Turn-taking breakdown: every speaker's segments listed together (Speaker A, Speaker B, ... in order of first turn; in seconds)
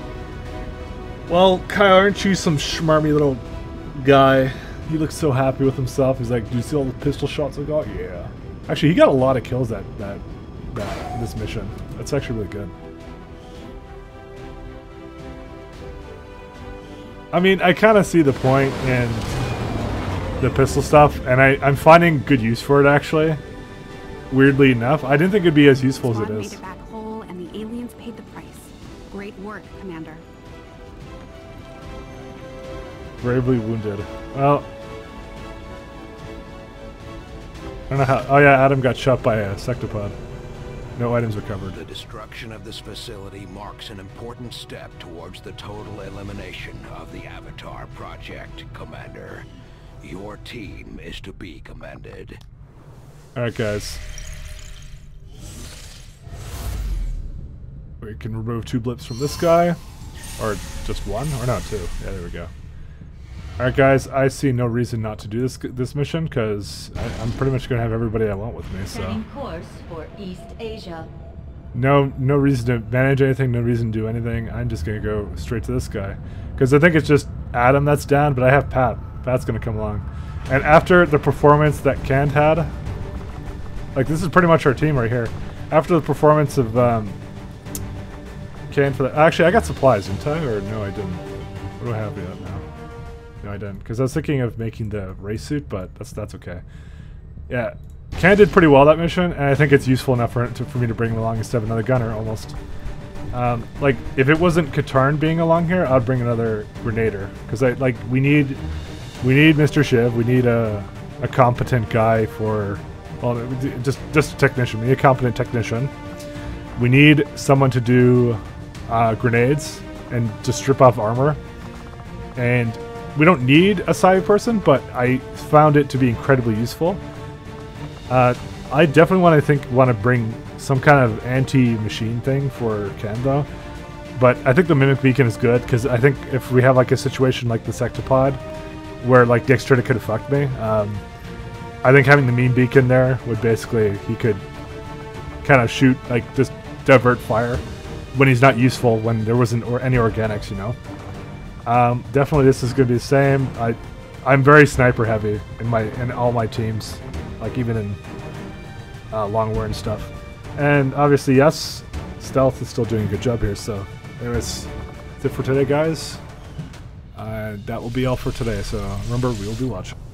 Speaker A: 1.3-12.7, 17.3-19.3, 20.4-23.4, 24.3-26.6, 33.2-34.7, 37.9-40.2, 41.0-41.8, 53.3-54.0, 58.0-59.8, 60.4-62.5, 63.6-69.2, 71.7-82.7, 83.9-87.2, 88.7-91.2, 91.8-92.6, 93.4-96.6, 97.5-102.5, 103.3-108.6, 109.2-115.9, 116.8-121.4, 122.4-127.0, 128.1-133.5, 134.2-138.4, 139.0-141.0, 141.8-144.4, 145.4-147.6, 148.1-150.8, 151.7-158.0, 159.1-166.2, 167.1-169.9
Speaker B: 25.9-30.2
Speaker C: 41.7-49.5, 50.0-52.4
Speaker D: 68.8-71.1